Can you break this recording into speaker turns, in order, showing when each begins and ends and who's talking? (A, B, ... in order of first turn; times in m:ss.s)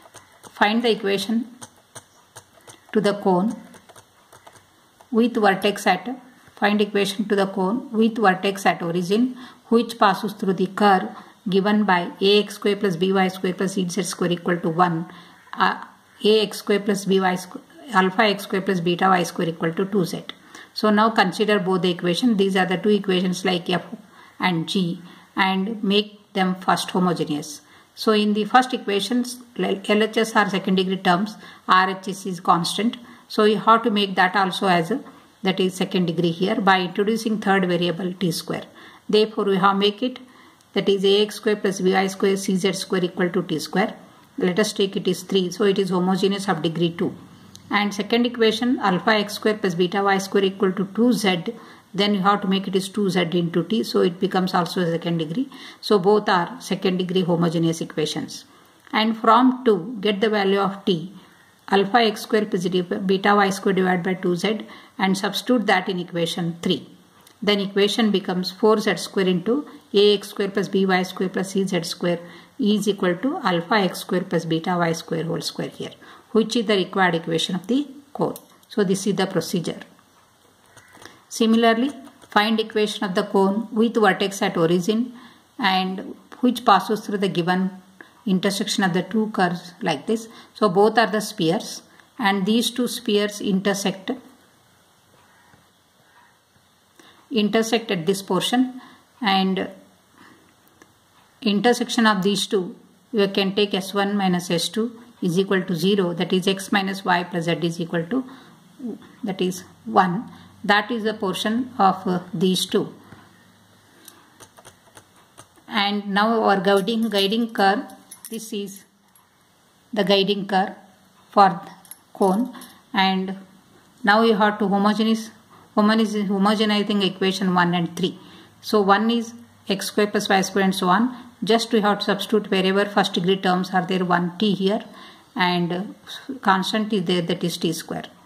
0:00.5-0:01.5 A
0:02.9-0:03.6 A
0:05.1-0:40.2 A
0:40.7-0:47.1 A
0:47.7-1:01.1 A
1:01.7-1:06.8 A
1:07.4-1:19.9 A
1:21.3-1:27.8 A
1:28.3-1:34.2 A
1:37.3-1:39.7 A
1:41.4-1:48.2 A
1:48.8-1:52.9 A
1:55.7-1:58.9 A
1:59.9-2:00.8 A
2:01.3-2:03.4 A
2:04.0-2:14.8 A
2:15.4-2:18.1 A